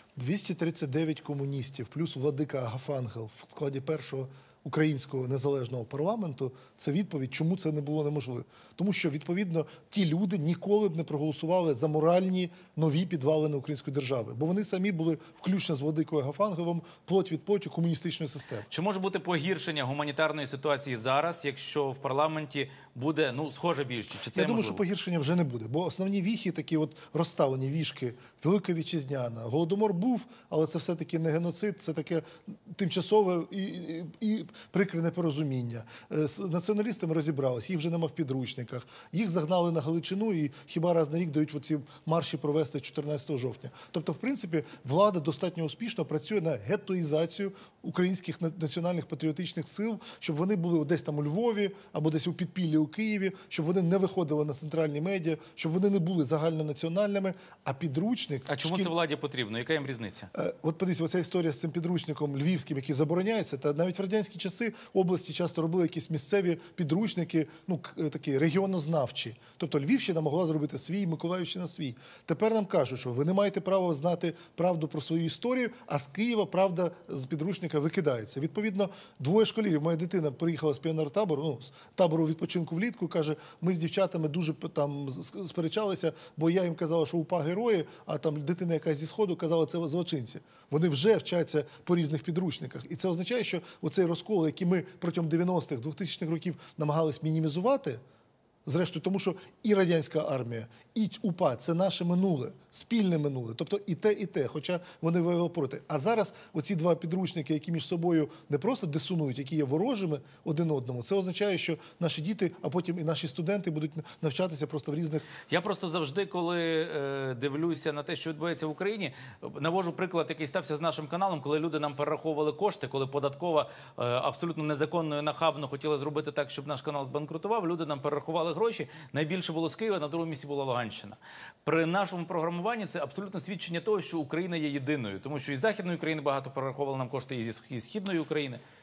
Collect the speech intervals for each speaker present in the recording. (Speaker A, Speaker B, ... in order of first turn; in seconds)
Speaker A: 0.2-18.7, 24.3-58.9, 60.3-98.0, 98.7-115.3
Speaker B: 18.7-24.8, 58.5-60.3, 115.5-138.6